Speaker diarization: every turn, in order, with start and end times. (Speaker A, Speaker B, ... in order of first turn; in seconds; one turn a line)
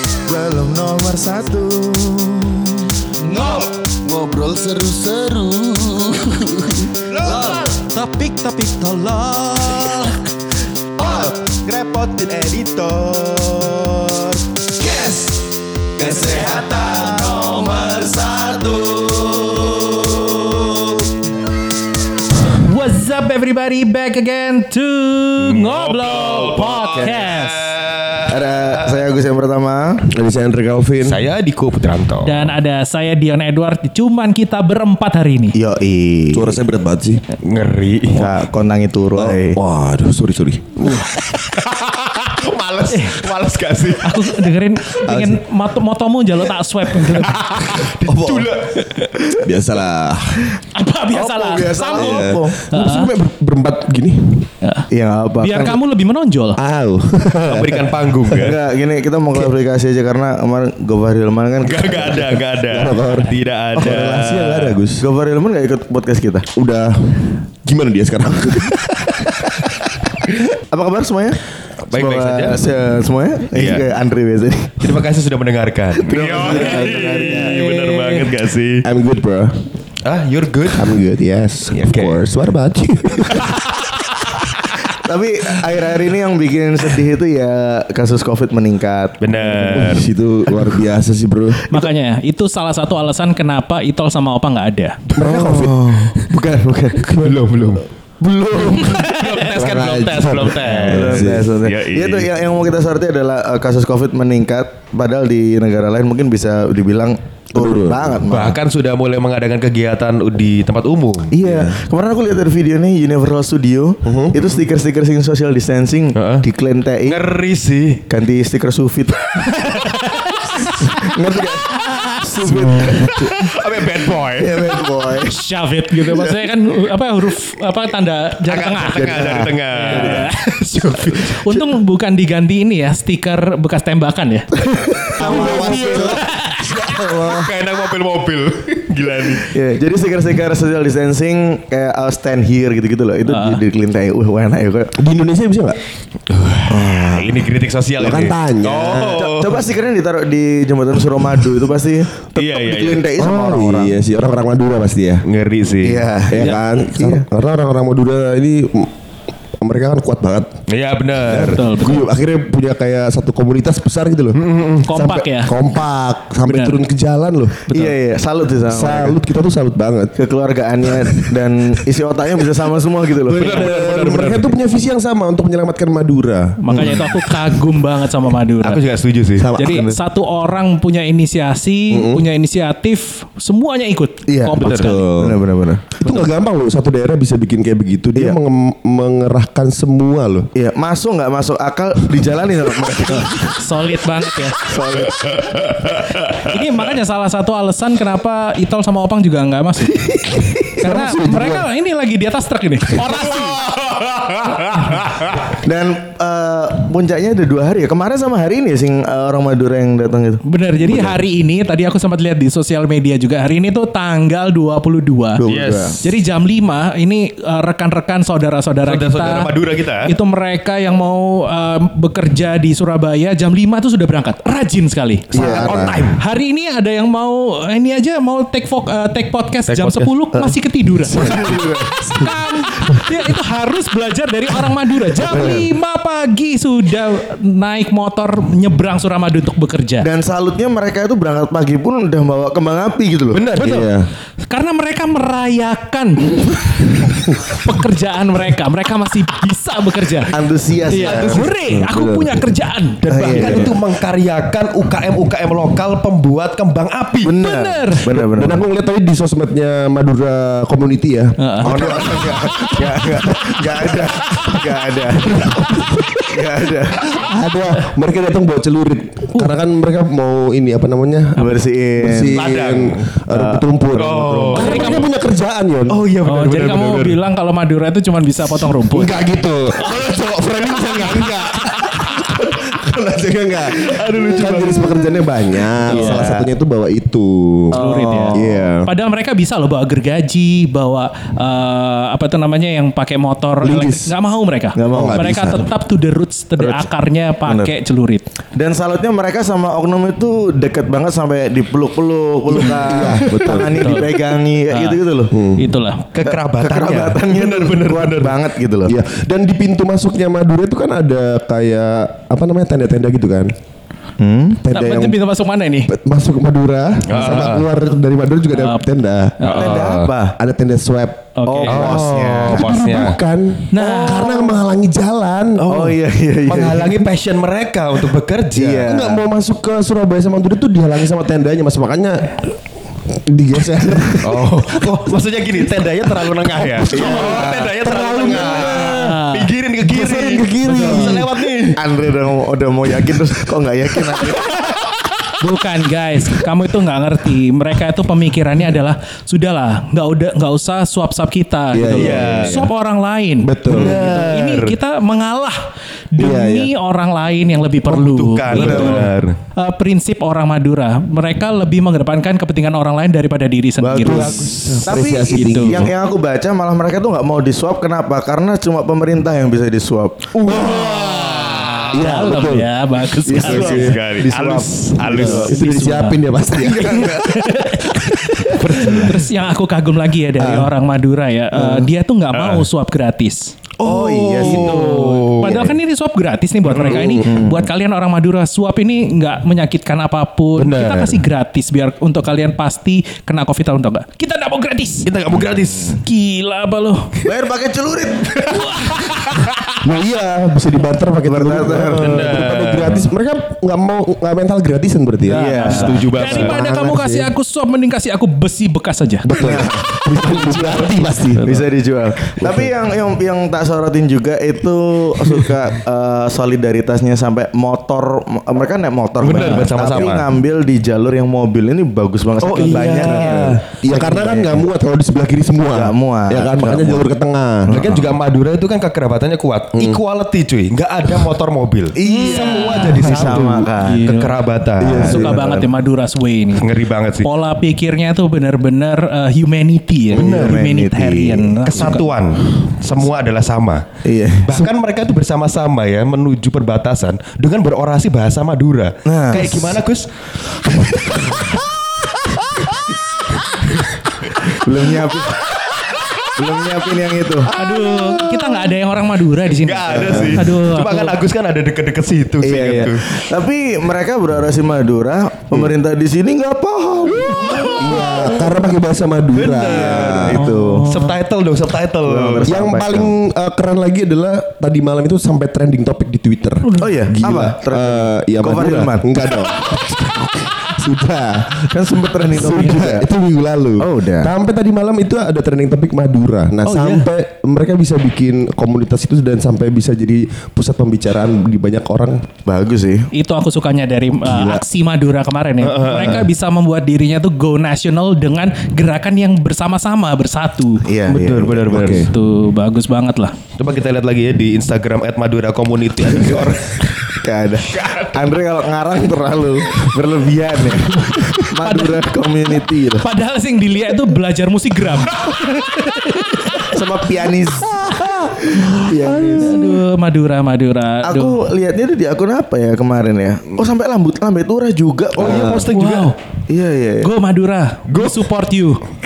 Speaker A: 0.2-7.6
Speaker B: 7.3-9.2
Speaker A: 9.2-9.9
Speaker A: 11.0-15.4
Speaker A: 16.0-20.8
Speaker B: 22.5-27.8
Speaker C: 25.4-28.8
Speaker A: 26.8-27.2
Speaker A: 28.3-30.1
Speaker D: 30.1-31.2
Speaker C: 31.0-32.5
Speaker B: 32.2-35.6
Speaker A: 35.5-36.6
Speaker D: 36.3-37.2
Speaker C: 37.4-38.3
Speaker A: 38.1-39.6
Speaker D: 39.1-41.1
Speaker B: 40.8-41.0
Speaker C: 41.2-44.4
Speaker B: 42.9-43.2
Speaker B: 44.0-47.4
Speaker D: 45.0-45.4
Speaker C: 47.0-49.3
Speaker D: 48.0-48.5
Speaker D: 49.3-50.5
Speaker B: 50.7-53.1
Speaker A: 51.1-52.6
Speaker D: 52.0-54.5
Speaker B: 54.6-54.9
Speaker A: 54.9-55.8
Speaker B: 55.4-56.6
Speaker D: 56.6-58.4
Speaker C: 57.5-58.6
Speaker A: 58.4-62.4
Speaker C: 61.6-64.8
Speaker D: 62.7-65.0
Speaker A: 65.0-66.5
Speaker D: 66.5-69.7
Speaker A: 70.5-75.0
Speaker C: 71.8-72.6
Speaker C: 73.5-73.9
Speaker C: 74.8-78.8
Speaker A: 75.9-77.6
Speaker B: 76.7-78.3
Speaker D: 78.8-79.5
Speaker C: 80.0-81.0
Speaker D: 80.7-83.6
Speaker C: 81.7-82.3
Speaker C: 83.4-84.3
Speaker A: 84.8-89.2
Speaker C: 89.2-90.0
Speaker D: 89.6-91.6
Speaker B: 91.7-95.0
Speaker D: 95.1-97.4
Speaker A: 95.2-97.1
Speaker C: 97.2-97.9
Speaker D: 98.2-101.5
Speaker A: 98.5-99.6
Speaker B: 98.7-99.9
Speaker C: 98.9-102.3
Speaker A: 100.7-108.6
Speaker D: 107.5-108.2
Speaker C: 108.2-111.3
Speaker A: 111.3-117.3
Speaker D: 111.4-111.8
Speaker D: 114.0-114.4
Speaker C: 116.1-116.5
Speaker C: 117.0-118.0
Speaker A: 118.1-119.7
Speaker B: 119.6-120.8
Speaker A: 120.6-123.3
Speaker B: 121.7-122.2
Speaker D: 122.3-123.4
Speaker C: 122.9-124.7
Speaker A: 124.2-125.3
Speaker B: 125.2-134.5
Speaker C: 128.5-130.3
Speaker A: 128.9-130.0
Speaker A: 134.7-136.2
Speaker D: 135.1-137.5
Speaker C: 135.3-136.1
Speaker B: 136.1-137.0
Speaker C: 137.2-139.5
Speaker A: 139.4-144.9
Speaker B: 143.2-143.6
Speaker D: 144.9-145.8
Speaker C: 146.3-149.6
Speaker A: 146.7-147.4
Speaker D: 148.0-149.1
Speaker A: 148.8-153.9
Speaker C: 152.3-153.1
Speaker D: 153.2-155.2
Speaker C: 155.2-156.6
Speaker A: 155.8-157.2
Speaker D: 156.3-158.9
Speaker D: 159.6-160.6
Speaker C: 160.7-161.6
Speaker D: 161.2-167.9
Speaker B: 161.4-162.1
Speaker C: 164.3-164.8
Speaker B: 164.8-165.5
Speaker B: 166.4-166.8
Speaker A: 167.7-169.2
Speaker D: 168.7-170.1
Speaker A: 170.2-173.8
Speaker D: 173.3-177.0
Speaker C: 173.3-174.5
Speaker B: 176.6-178.8
Speaker A: 176.7-177.1
Speaker C: 178.6-179.5
Speaker D: 179.4-180.0
Speaker B: 179.5-185.0
Speaker D: 181.9-182.2
Speaker D: 184.3-185.4
Speaker C: 184.6-185.0
Speaker A: 185.2-186.3
Speaker D: 186.0-190.5
Speaker A: 190.5-193.6
Speaker B: 193.3-194.6
Speaker A: 194.5-195.7
Speaker C: 195.6-196.4
Speaker B: 196.1-200.0
Speaker D: 200.2-201.7
Speaker B: 200.8-203.7
Speaker C: 203.3-205.5
Speaker A: 205.5-210.4
Speaker B: 210.4-215.4
Speaker A: 215.4-216.0
Speaker C: 215.4-216.0
Speaker B: 216.0-240.1
Speaker C: 218.8-220.1
Speaker D: 225.3-226.1
Speaker A: 225.3-225.8
Speaker C: 225.5-226.2
Speaker C: 229.7-230.1
Speaker A: 230.3-232.0
Speaker D: 231.3-233.0
Speaker D: 235.2-235.7
Speaker A: 235.3-235.6
Speaker A: 240.0-243.4
Speaker C: 243.3-243.8
Speaker B: 243.6-243.9
Speaker D: 243.6-244.1
Speaker B: 244.4-250.3
Speaker A: 250.3-251.5
Speaker B: 250.9-253.6
Speaker C: 250.9-251.4
Speaker D: 251.5-252.5
Speaker C: 253.0-257.4
Speaker A: 253.1-253.7
Speaker A: 257.2-258.6
Speaker B: 257.4-258.1
Speaker D: 258.1-263.6
Speaker B: 261.4-261.7
Speaker A: 261.6-265.4
Speaker D: 265.3-266.2
Speaker A: 266.2-267.1
Speaker D: 267.1-276.0
Speaker A: 271.4-272.4
Speaker C: 272.3-273.2
Speaker A: 273.3-274.7
Speaker C: 273.9-275.0
Speaker B: 274.6-275.0
Speaker C: 275.9-277.2
Speaker B: 276.2-279.2
Speaker D: 278.8-288.9
Speaker C: 283.8-285.1
Speaker A: 285.9-286.5
Speaker A: 287.7-288.5
Speaker B: 287.8-298.2
Speaker D: 293.6-294.1
Speaker A: 294.8-295.4
Speaker D: 294.9-295.7
Speaker A: 297.4-297.7
Speaker A: 298.5-305.3
Speaker D: 302.5-303.8
Speaker B: 302.6-305.0
Speaker D: 305.3-305.7
Speaker B: 305.6-306.0
Speaker C: 306.1-308.4
Speaker A: 306.2-308.9
Speaker D: 308.8-313.5
Speaker A: 314.2-314.6
Speaker D: 314.6-315.2
Speaker B: 314.7-315.9
Speaker D: 315.9-319.4
Speaker C: 317.1-317.7
Speaker B: 318.5-318.8
Speaker B: 319.4-319.9
Speaker C: 319.4-320.1
Speaker A: 319.5-320.4
Speaker D: 320.4-321.3
Speaker B: 321.4-321.8
Speaker A: 321.4-322.8
Speaker C: 321.6-323.2
Speaker D: 322.4-325.9
Speaker B: 323.7-324.3
Speaker A: 323.9-324.5
Speaker A: 325.6-326.9
Speaker C: 326.5-328.8
Speaker D: 326.5-327.1
Speaker A: 328.6-329.2
Speaker D: 328.6-332.5
Speaker D: 333.1-335.1
Speaker C: 334.2-341.8
Speaker D: 336.6-339.1
Speaker A: 336.9-338.8
Speaker B: 338.7-339.5
Speaker D: 339.8-341.6
Speaker B: 340.7-341.1
Speaker A: 341.8-344.7
Speaker B: 345.4-355.6
Speaker D: 351.7-352.7
Speaker C: 351.9-352.6
Speaker D: 353.4-354.0
Speaker C: 353.7-354.8
Speaker A: 353.7-354.0
Speaker B: 356.1-364.5
Speaker D: 356.2-356.7
Speaker C: 357.9-359.4
Speaker A: 358.5-359.1
Speaker A: 363.8-370.3
Speaker D: 364.0-365.9
Speaker B: 365.3-365.9
Speaker D: 370.4-372.7
Speaker C: 370.5-372.1
Speaker B: 370.7-373.9
Speaker A: 373.2-375.6
Speaker D: 373.3-374.0
Speaker C: 373.7-375.5
Speaker D: 375.0-377.2
Speaker B: 375.5-376.2
Speaker A: 376.5-377.4
Speaker B: 376.8-383.5
Speaker C: 378.6-379.3
Speaker D: 380.4-380.7
Speaker A: 381.5-381.9
Speaker C: 382.3-382.7
Speaker A: 383.8-384.7
Speaker C: 383.8-385.6
Speaker B: 384.4-395.1
Speaker C: 386.6-387.2
Speaker D: 386.8-387.3
Speaker A: 387.2-387.6
Speaker C: 390.6-391.2
Speaker C: 395.0-396.0
Speaker B: 396.0-397.1
Speaker A: 397.2-398.6
Speaker B: 398.4-399.3
Speaker D: 399.8-407.3
Speaker A: 401.2-402.3
Speaker C: 402.0-403.1
Speaker A: 405.3-405.9
Speaker B: 405.4-409.3
Speaker C: 405.6-406.6
Speaker D: 409.2-411.5
Speaker A: 409.3-410.8
Speaker A: 411.4-424.7
Speaker D: 412.4-412.7
Speaker C: 419.2-420.3
Speaker B: 419.3-419.7
Speaker C: 422.4-423.6
Speaker D: 422.6-427.8
Speaker A: 425.7-427.1
Speaker A: 427.6-428.1
Speaker C: 427.7-433.4
Speaker D: 429.7-430.0
Speaker A: 432.0-434.0
Speaker B: 432.0-433.0
Speaker D: 432.1-433.7
Speaker B: 433.8-434.4
Speaker C: 434.0-435.1
Speaker D: 434.8-435.5
Speaker A: 434.9-435.6
Speaker B: 435.0-442.1
Speaker C: 436.6-437.3
Speaker A: 440.1-442.0
Speaker C: 440.1-440.6
Speaker C: 441.7-443.8
Speaker A: 444.0-444.7
Speaker C: 444.4-450.1
Speaker A: 449.0-449.8
Speaker C: 450.6-451.4
Speaker C: 453.5-453.8
Speaker A: 454.4-455.6
Speaker C: 455.9-456.1
Speaker A: 456.3-457.5
Speaker B: 457.5-461.2
Speaker C: 457.7-458.0
Speaker C: 459.5-463.2
Speaker A: 462.4-468.5
Speaker D: 462.5-462.9
Speaker C: 467.2-468.3
Speaker D: 467.8-470.4
Speaker C: 469.3-472.6
Speaker A: 469.6-470.9
Speaker B: 470.3-471.2
Speaker A: 472.0-473.1
Speaker D: 472.4-481.7
Speaker A: 476.8-479.1
Speaker A: 481.6-483.1
Speaker D: 482.3-492.2
Speaker A: 483.8-484.3
Speaker C: 486.7-487.0
Speaker A: 492.4-493.1
Speaker B: 493.1-500.8
Speaker D: 494.2-494.6
Speaker C: 495.6-496.3
Speaker A: 500.8-502.0
Speaker C: 501.1-502.1
Speaker D: 501.7-502.1
Speaker B: 501.7-503.3
Speaker C: 503.6-506.9
Speaker A: 506.1-513.0
Speaker C: 507.7-508.3
Speaker B: 511.6-512.1
Speaker B: 513.0-516.8
Speaker A: 516.6-519.6
Speaker D: 517.9-519.6
Speaker B: 519.4-521.4
Speaker A: 521.0-525.5
Speaker C: 525.1-526.1
Speaker D: 525.2-525.7
Speaker B: 525.7-526.1
Speaker A: 526.5-527.1
Speaker B: 527.0-528.8
Speaker C: 527.9-528.2